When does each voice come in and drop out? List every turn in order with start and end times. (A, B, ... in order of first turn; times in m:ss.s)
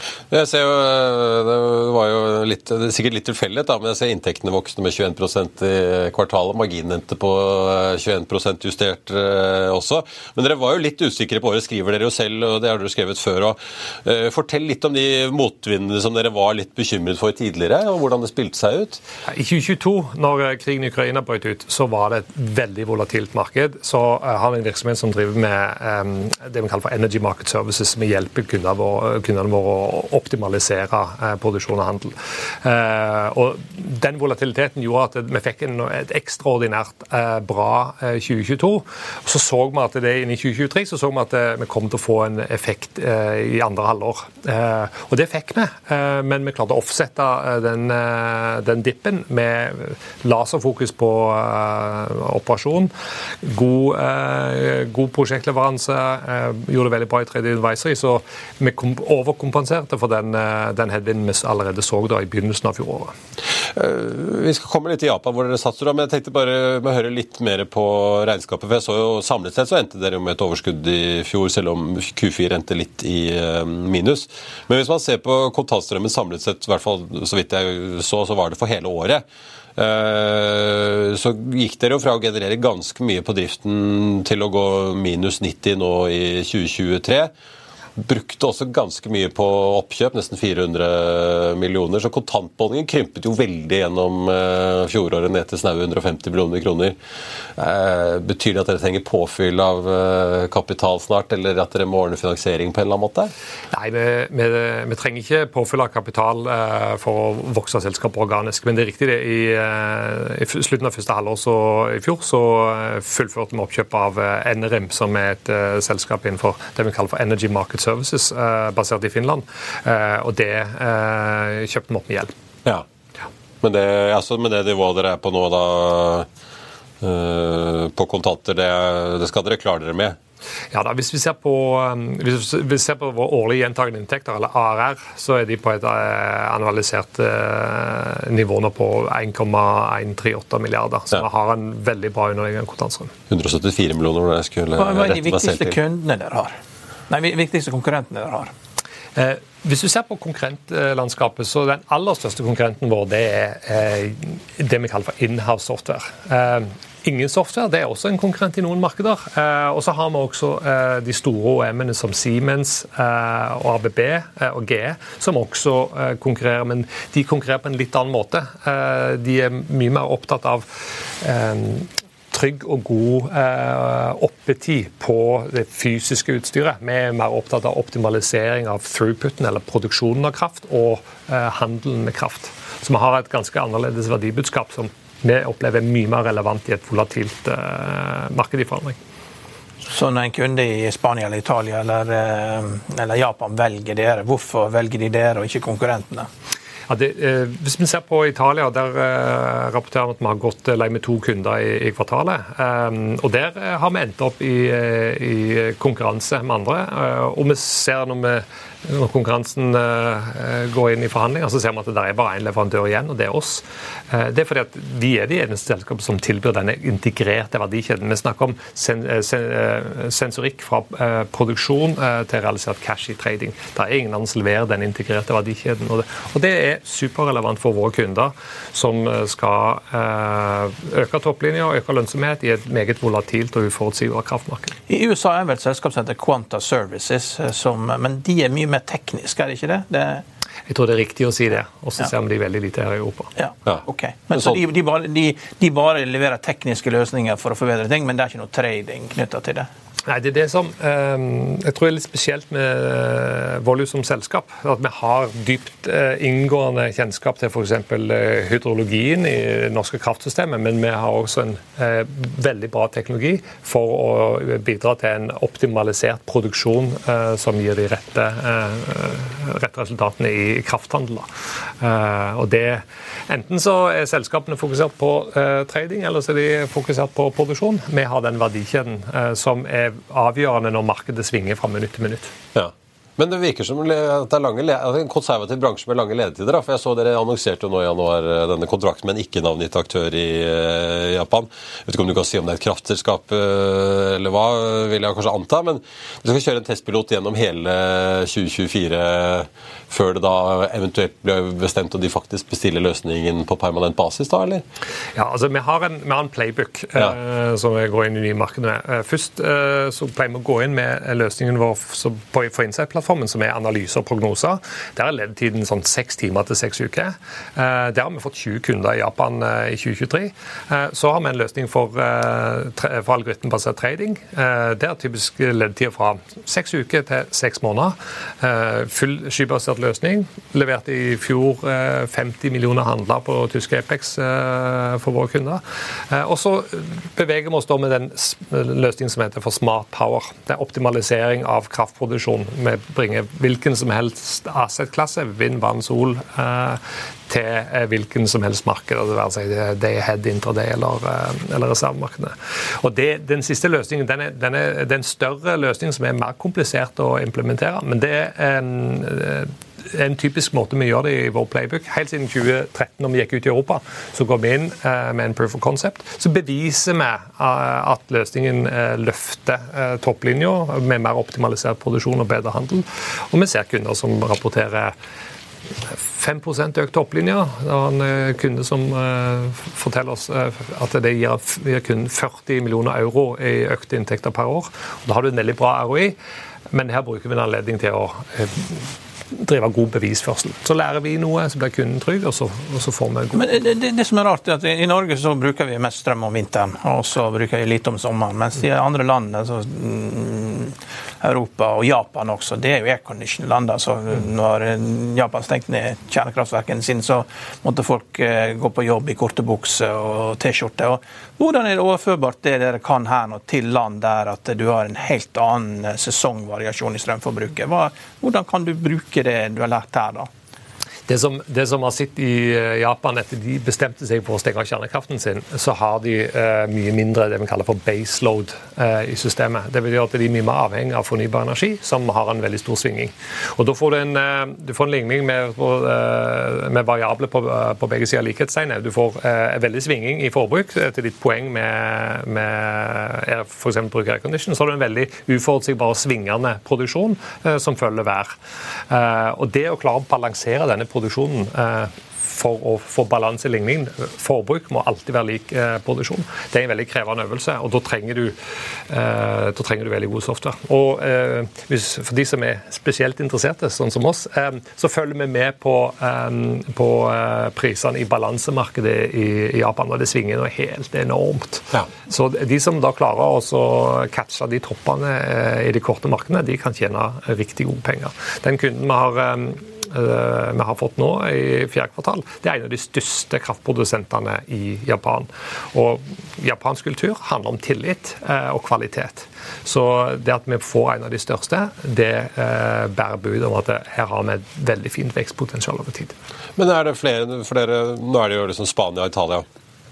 0:00.3-0:19.0 A
0:19.3-1:03.1 B
1:03.8-1:19.2 A
1:19.8-1:27.3 A
1:28.0-1:37.0 A
1:37.6-1:43.3 A
1:43.7-2:02.3 B
2:03.6-2:06.3 A
2:07.0-2:10.2 A
2:10.7-2:23.1 B
2:23.3-2:25.8 A
2:24.8-2:26.6 C
2:27.1-2:28.5 C
2:29.2-2:50.7 B
2:51.2-3:09.0 B
3:09.9-3:16.3 C
3:16.9-3:54.8 B
3:54.9-4:00.2 C
4:00.7-4:03.3 B
4:03.4-4:09.7 C
4:03.7-4:04.6 A
4:10.1-4:31.3 B
4:31.8-4:42.3 B
4:42.5-5:04.6 A
5:05.2-6:15.0 B
6:16.0-6:26.2 B
6:26.7-6:33.4 B
6:33.4-7:00.3 C
7:01.1-7:28.4 B
7:28.9-7:38.4 B
7:38.9-8:16.1 B
8:16.6-8:19.5 A